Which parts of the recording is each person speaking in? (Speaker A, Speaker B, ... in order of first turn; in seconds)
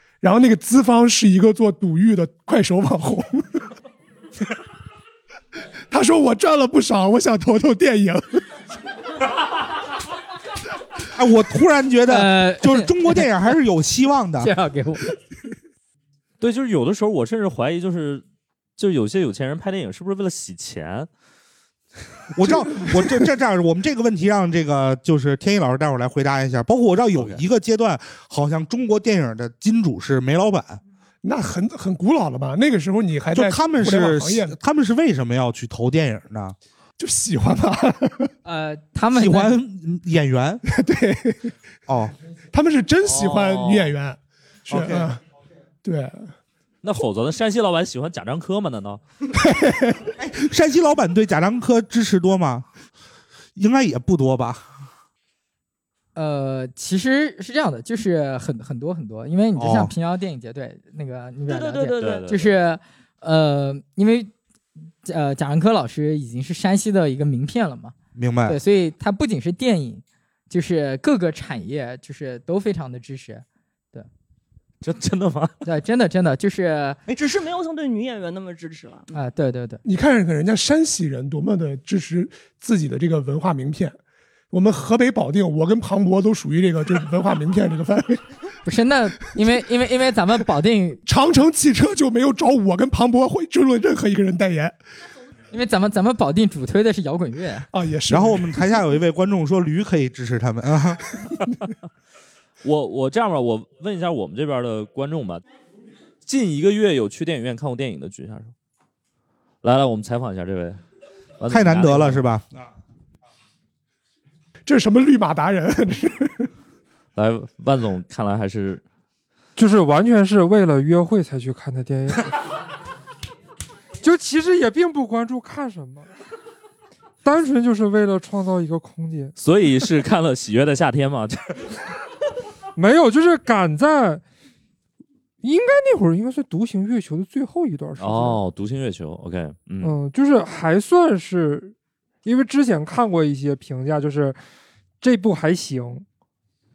Speaker A: 0.2-3.6, 5.9-8.4, 31.2-34.6, 37.0-38.3, 40.7-41.5, 42.5-45.2, 45.8-46.3, 49.3-50.1, 79.8-84.0, 84.5-88.3, 91.1-94.8, 97.7-98.7, 114.7-116.5
Speaker B: 11.1-14.5, 22.3-30.8, 33.3-36.6, 39.1-40.6, 41.9-42.1, 44.7-45.1, 50.2-52.7, 53.6-54.6, 59.6-59.9, 68.2-68.6, 98.1-101.0, 111.5-112.5
Speaker C: 12.1-13.3, 14.4-15.1, 38.5-39.6, 56.1-64.3, 65.0-67.9, 68.5-74.1, 75.6-77.0, 79.1-79.8, 88.7-91.0, 95.5-97.7
Speaker D: 16.4-18.2, 18.8-21.1, 27.1-27.4, 43.0-43.9, 46.8-49.0, 62.0-62.4, 74.8-75.5, 102.6-105.4, 106.2-108.5, 109.6-110.8, 111.4-112.2, 117.2-118.8, 129.4-131.8, 138.0-139.9
Speaker E: 61.5-62.3, 77.1-79.1
Speaker F: 119.6-122.3, 124.0-126.1, 127.2-129.3, 132.8-134.2, 135.4-138.4, 139.8-144.4, 145.0-146.1